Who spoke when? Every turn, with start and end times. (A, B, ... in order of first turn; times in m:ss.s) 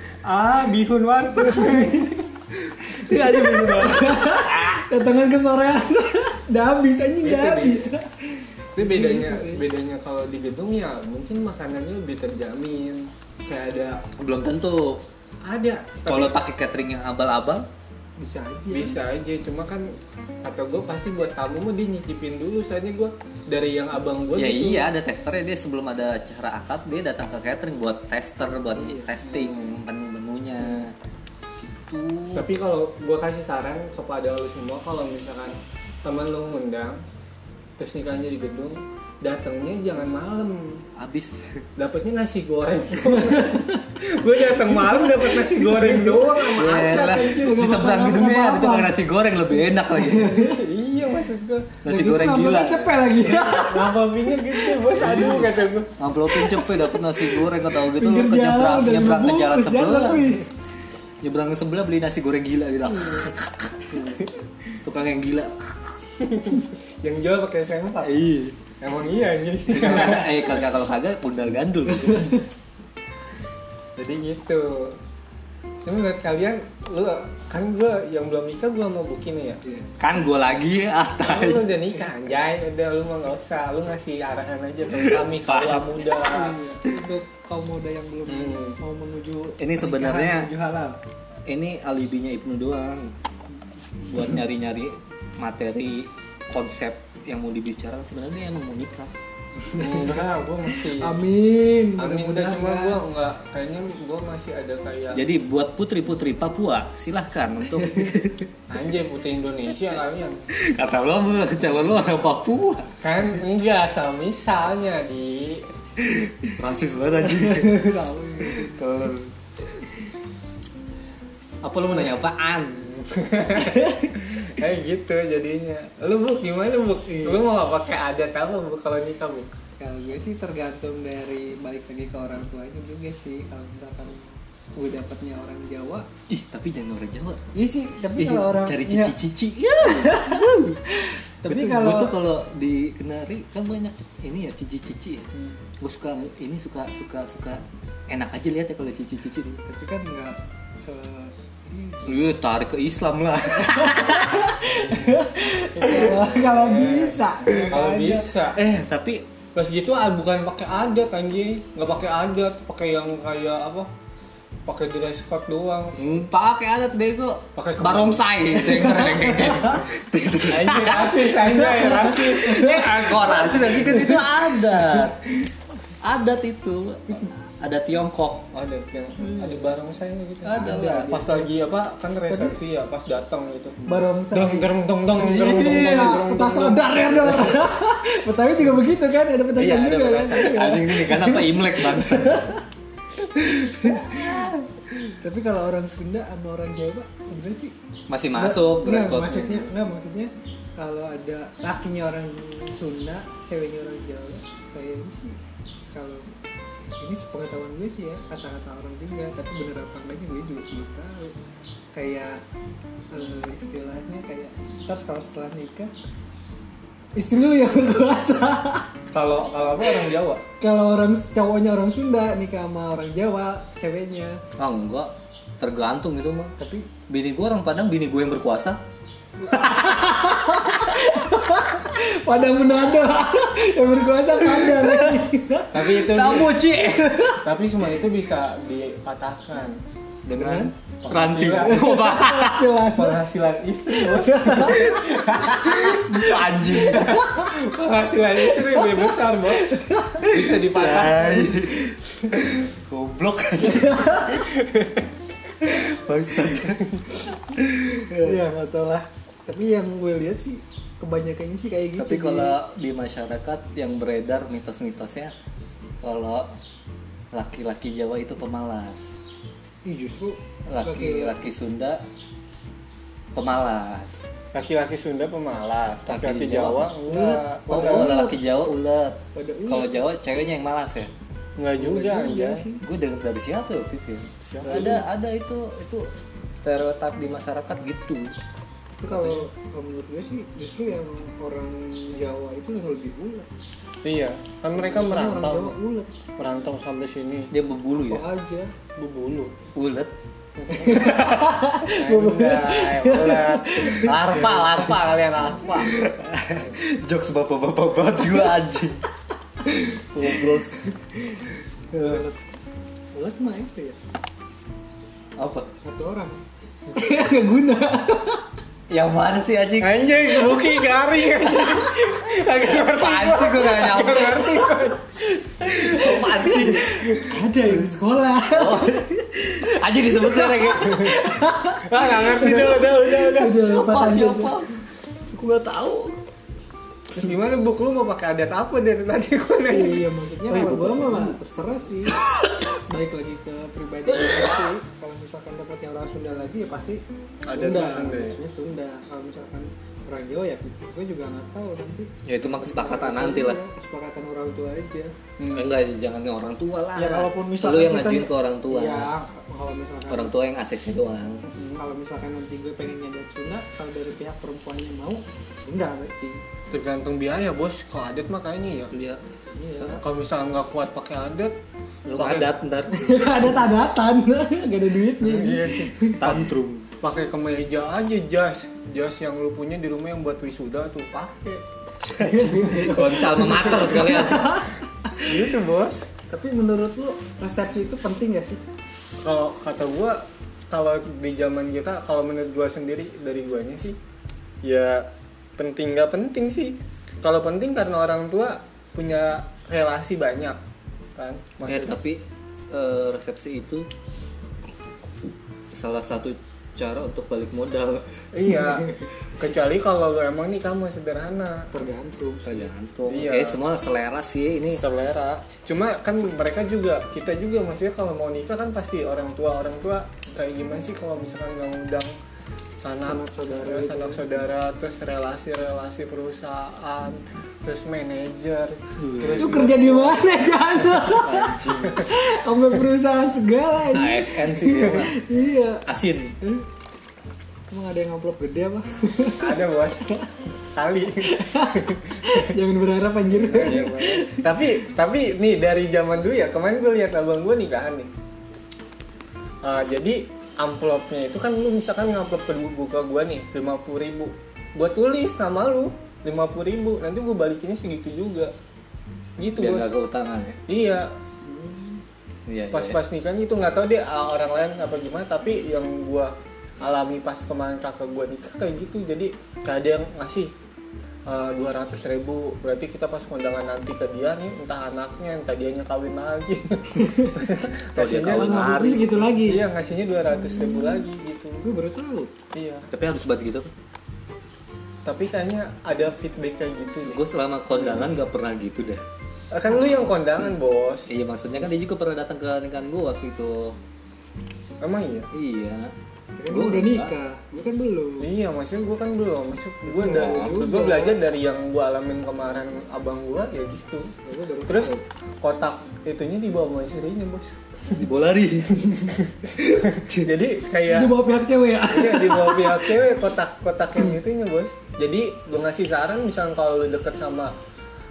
0:00.2-0:02.2 A
0:01.4-0:02.2 B
0:02.8-0:09.6 B
0:02.9-0:04.8 C
0:07.2-0:07.9 A
0:08.8-0:14.1 A
0:14.2-0:15.0 C
0:15.5-0:16.4 A
0:16.1-0:17.7 C
0:18.2-0:19.0 B
0:18.7-0:24.9 A
0:24.4-0:31.0 C
0:28.8-0:29.1 B
0:29.2-0:29.7 A
0:31.8-0:32.5 C
0:32.3-0:37.0 A
0:37.8-0:40.8 A
0:41.0-0:41.6 C
0:41.8-0:47.5 A
0:43.0-0:43.8 B
0:44.7-0:49.0 B
0:46.6-0:50.5 C
0:49.9-0:50.6 B
0:50.4-0:51.8 A
0:51.8-0:53.4 C
0:51.9-0:54.8 B
0:53.3-0:55.9 A
0:54.9-1:00.4 C
0:56.3-1:00.5 B
1:01.2-1:04.0 C
1:03.9-1:04.3 B
1:04.8-1:05.7 C
1:06.2-1:08.2 A
1:08.0-1:08.6 C
1:08.8-1:10.6 A
1:09.7-1:12.4 C
1:12.1-1:12.4 B
1:14.0-1:15.0 A
1:15.8-1:19.6 A
1:19.6-1:19.9 B
1:20.0-1:21.7 C
1:21.2-1:26.6 A
1:25.0-1:26.0 C
1:26.2-1:31.0 B
1:28.3-1:28.8 A
1:29.6-1:30.5 C
1:31.5-1:33.1 C
1:34.1-1:39.1 C
1:39.6-1:43.0 B
1:39.8-1:41.2 A
1:42.0-1:45.2 A
1:45.1-1:48.4 C
1:47.8-1:48.1 B
1:48.7-1:50.4 A
1:50.5-1:52.9 C
1:53.0-1:55.7 A
1:56.0-1:59.3 C
1:57.2-1:58.8 B
2:01.6-2:02.9 C
2:02.9-2:09.5 A
2:03.8-2:04.1 B
2:07.1-2:07.4 B
2:09.8-2:16.1 B
2:16.3-2:17.4 C
2:17.5-2:19.1 B
2:18.2-2:29.6 C
2:19.8-2:20.6 B
2:21.4-2:22.2 B
2:29.6-2:32.2 B
2:32.0-2:34.6 C
2:33.6-2:38.3 B
2:35.8-2:38.6 A
2:38.5-2:39.2 C
2:39.6-2:43.9 A
2:44.7-2:46.2 A
2:46.0-2:55.4 C
2:47.6-2:48.2 A
2:48.6-2:49.9 B
2:50.5-2:54.3 A
2:51.6-2:52.4 B
2:56.0-2:58.5 C
2:58.5-3:07.5 A
3:00.4-3:01.5 B
3:00.5-3:01.2 C
3:02.3-3:02.6 B
3:03.8-3:12.6 B
3:09.6-3:10.6 A
3:10.3-3:12.6 C
3:13.2-3:17.7 B
3:13.8-3:14.6 C
3:18.1-3:19.7 C
3:18.3-3:25.4 B
3:25.9-3:26.3 B
3:27.0-3:31.4 B
3:31.9-3:32.4 B
3:33.1-3:35.9 B
3:37.2-3:38.9 B
3:39.1-3:40.4 A
3:40.6-3:44.4 B
3:44.6-3:46.6 C
3:46.6-3:46.9 B
3:47.1-3:48.8 C
3:49.5-3:51.0 C
3:49.5-3:55.9 B
3:54.5-3:55.2 C
3:55.7-3:56.6 A
3:55.8-3:57.4 C
3:56.8-3:57.4 B
3:57.4-3:59.8 A
4:00.3-4:02.7 C
4:00.3-4:00.7 B
4:01.0-4:02.0 A
4:01.5-4:03.2 B
4:03.0-4:11.6 A
4:03.9-4:07.5 B
4:05.5-4:07.2 C
4:09.7-4:10.3 B
4:10.2-4:14.5 C
4:13.6-4:14.5 B
4:15.6-4:18.4 C
4:18.1-4:22.6 B
4:22.0-4:25.3 C
4:26.0-4:26.5 C
4:27.3-4:29.1 C
4:29.8-4:31.4 B
4:30.7-4:32.0 C
4:33.4-4:34.2 C
4:34.5-4:38.2 A
4:36.1-4:36.9 C
4:37.1-4:38.4 B
4:37.7-4:41.1 C
4:39.3-4:40.0 B
4:41.6-4:42.7 A
4:41.8-4:42.8 B
4:42.8-4:46.1 C
4:44.4-4:45.0 A
4:44.6-4:45.0 B
4:46.6-4:48.4 C
4:49.0-4:53.5 B
4:49.1-4:49.4 C
4:54.0-4:55.8 A
4:54.7-4:56.1 B
4:56.4-4:57.5 A
4:57.5-4:58.3 C
4:58.1-4:58.7 B
4:59.0-4:59.6 A
4:59.8-5:00.1 C
5:00.6-5:01.2 A
5:00.7-5:04.3 B
5:00.9-5:01.6 C
5:01.8-5:06.0 A
5:04.4-5:04.8 C
5:05.6-5:09.0 C
5:09.6-5:12.2 C
5:11.9-5:12.5 B
5:13.1-5:14.0 B
5:15.4-5:15.7 C
5:15.8-5:16.4 B
5:16.9-5:18.5 B
5:18.9-5:20.6 C
5:19.8-5:25.0 A
5:21.5-5:21.9 C
5:22.5-5:24.8 C
5:25.6-5:27.9 C
5:25.7-5:29.2 B
5:28.5-5:31.4 C
5:30.2-5:34.6 B
5:31.8-5:33.6 A
5:33.4-5:34.7 C
5:35.3-5:36.2 C
5:37.1-5:40.1 A
5:39.7-5:42.2 B
5:40.5-5:41.4 C
5:42.2-5:42.6 C
5:42.9-5:55.1 B
5:44.2-5:44.6 C
5:47.5-5:48.4 A
5:52.2-5:53.6 C
5:55.4-5:55.7 A
5:55.5-5:59.1 C
5:57.0-6:00.3 B
6:00.1-6:01.4 C
6:01.4-6:06.4 B
6:06.7-6:08.9 A
6:08.9-6:09.2 C
6:09.5-6:10.0 B
6:10.0-6:11.6 A
6:12.1-6:13.7 C
6:12.2-6:12.5 A
6:12.9-6:16.4 B
6:15.2-6:16.4 A
6:16.2-6:16.9 C
6:17.0-6:22.9 A
6:22.2-6:25.4 B
6:22.4-6:24.7 C
6:25.2-6:26.1 A
6:26.3-6:28.6 B
6:29.2-6:34.0 A
6:34.6-6:40.6 A
6:41.2-6:42.0 A
6:41.7-6:43.9 C
6:45.7-6:48.2 C
6:48.3-6:51.7 A
6:51.7-6:52.7 B
6:52.4-6:54.8 C
6:53.1-6:53.6 A
6:54.7-7:02.1 A
7:02.8-7:10.4 A
7:03.1-7:04.3 B
7:09.0-7:09.7 C
7:09.4-7:15.8 B
7:11.0-7:12.1 C
7:13.9-7:15.2 C
7:15.9-7:16.4 C
7:17.7-7:19.6 B
7:19.4-7:20.1 A
7:20.7-7:22.5 A
7:21.2-7:24.8 B
7:23.3-7:28.1 A
7:23.6-7:24.0 C
7:29.6-7:38.5 A
7:39.4-7:39.9 A
7:39.6-7:40.6 C
7:40.7-7:41.1 A
7:41.4-7:42.0 B
7:42.5-7:43.0 C
7:42.7-7:50.5 A
7:51.3-7:58.8 A
7:57.0-7:57.5 B
7:58.0-7:59.4 C
7:58.3-7:59.6 B
7:59.4-8:01.6 A
8:00.4-8:01.0 B
8:01.6-8:02.3 B
8:02.5-8:02.9 A
8:02.9-8:03.7 C
8:05.0-8:07.2 A
8:07.1-8:09.0 C
8:09.5-8:11.1 A
8:11.1-8:13.8 C
8:14.8-8:15.3 A
8:15.3-8:15.9 C
8:16.4-8:18.3 B
8:16.5-8:17.2 C
8:18.2-8:24.1 A
8:19.9-8:21.2 B
8:20.0-8:20.6 C
8:24.2-8:25.0 B
8:24.6-8:27.6 A
8:27.9-8:29.3 C
8:29.6-8:30.2 B
8:30.0-8:31.2 A
8:30.9-8:33.0 B
8:31.9-8:37.5 A